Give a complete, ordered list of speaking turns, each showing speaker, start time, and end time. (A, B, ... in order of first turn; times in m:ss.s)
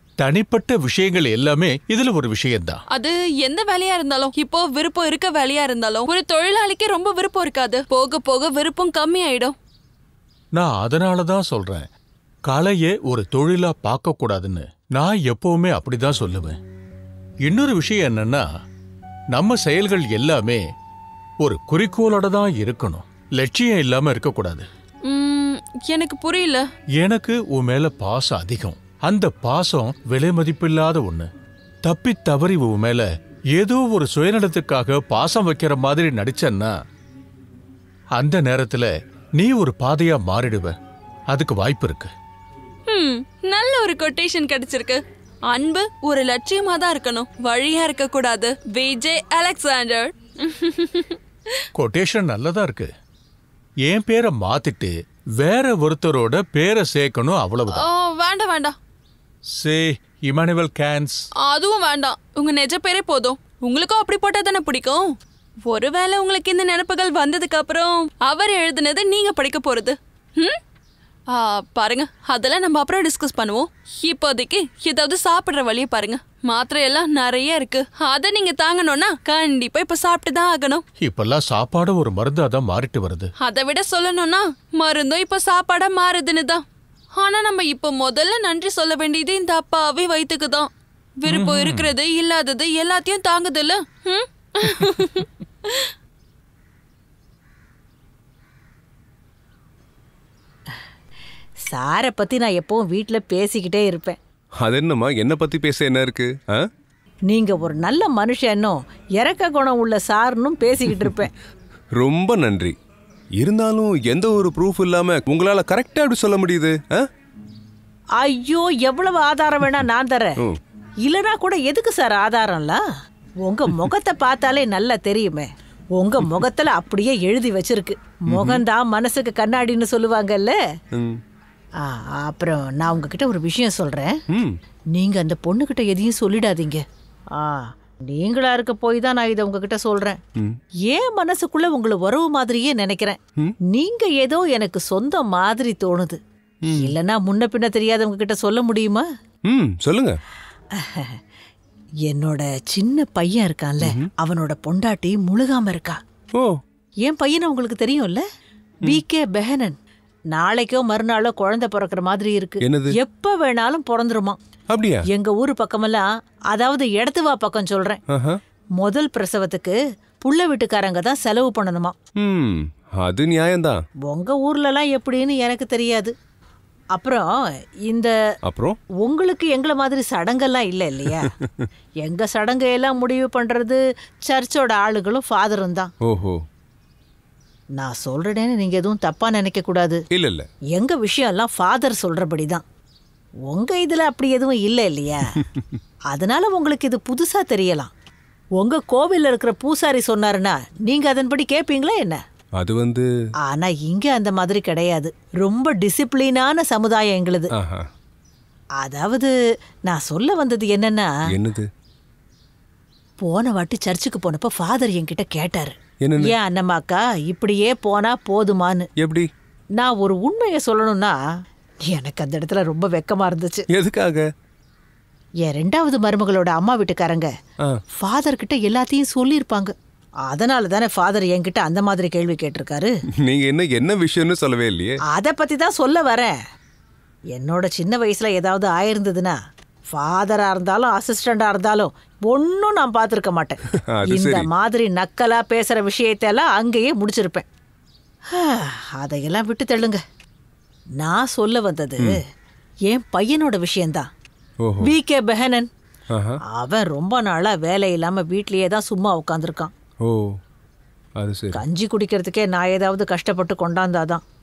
0:00.2-0:02.8 A
0:02.9-0:09.6 B
0:10.6-0:11.9 A
0:12.5-0:16.6 A
0:17.4-0:18.5 A
0:19.3-0:20.6 A
0:21.4-0:24.6 A
0:25.1-0:26.6 B
0:27.0-0:31.3 A
0:31.8-0:36.7 A
0:38.2-0:40.8 A
0:41.3-0:42.1 A
0:42.9-0:51.7 B
0:51.8-0:52.9 A
0:53.9-0:57.9 A
0:57.7-0:58.8 B
0:59.6-1:01.3 A
1:01.4-1:05.0 B
1:05.7-1:10.6 B
1:11.3-1:20.8 B
1:21.0-1:23.3 A
1:23.4-1:26.6 B
1:27.2-1:30.7 B
1:31.2-1:35.9 B
1:31.3-1:31.9 A
1:41.7-1:44.2 C
1:44.6-1:46.6 D
1:47.3-1:51.3 C
1:52.0-1:52.7 D
1:53.4-1:57.1 D
1:58.2-2:00.4 C
2:01.0-2:02.8 C
2:03.4-2:10.6 C
2:08.3-2:08.6 D
2:11.0-2:11.2 D
2:11.8-2:14.2 C
2:15.0-2:16.8 C
2:17.4-2:20.2 C
2:20.9-2:23.2 C
2:23.7-2:29.0 C
2:26.7-2:26.9 D
2:29.5-2:30.2 D
2:30.8-2:31.2 C
2:32.1-2:36.0 C
2:33.8-2:34.1 D
2:37.0-2:38.2 C
2:38.8-2:39.8 C
2:40.3-2:44.4 C
2:42.6-2:42.9 D
2:44.7-2:45.0 D
2:45.1-2:48.0 C
2:48.1-2:48.4 D
2:48.8-2:51.9 C
2:52.2-2:53.8 D
2:54.1-2:56.1 C
2:57.0-2:57.3 C
2:58.4-2:58.8 D
2:59.0-3:01.3 C
3:01.1-3:01.7 D
3:02.0-3:05.9 C
3:06.1-3:06.4 D
3:07.8-3:10.0 C
3:10.1-3:10.5 D
3:10.7-3:12.6 C
3:13.5-3:15.4 C
3:15.5-3:15.8 D
3:16.1-3:17.9 C
3:18.6-3:22.2 C
3:22.6-3:23.1 D
3:23.4-3:27.5 C
3:27.6-3:27.8 D
3:28.8-3:29.3 C
3:29.9-3:31.1 C
3:31.3-3:31.7 D
3:33.2-3:38.9 C
3:36.0-3:36.4 D
3:39.0-3:39.3 D
3:39.8-3:41.2 C
3:41.9-3:43.6 C
3:43.7-3:44.2 D
3:45.4-3:47.3 C
3:48.0-3:49.7 C
3:50.3-3:52.9 C
3:53.2-3:55.0 D
3:55.1-3:56.3 C
3:57.3-3:59.4 C
3:59.9-4:03.6 C
4:03.9-4:04.5 D
4:04.1-4:07.5 C
4:08.3-4:10.0 C
4:11.0-4:12.2 C
4:12.9-4:14.1 C
4:14.6-4:14.9 D
4:14.8-4:15.7 C
4:16.1-4:16.4 D
4:16.5-4:19.7 C
4:21.2-4:21.6 D
4:21.5-4:24.2 C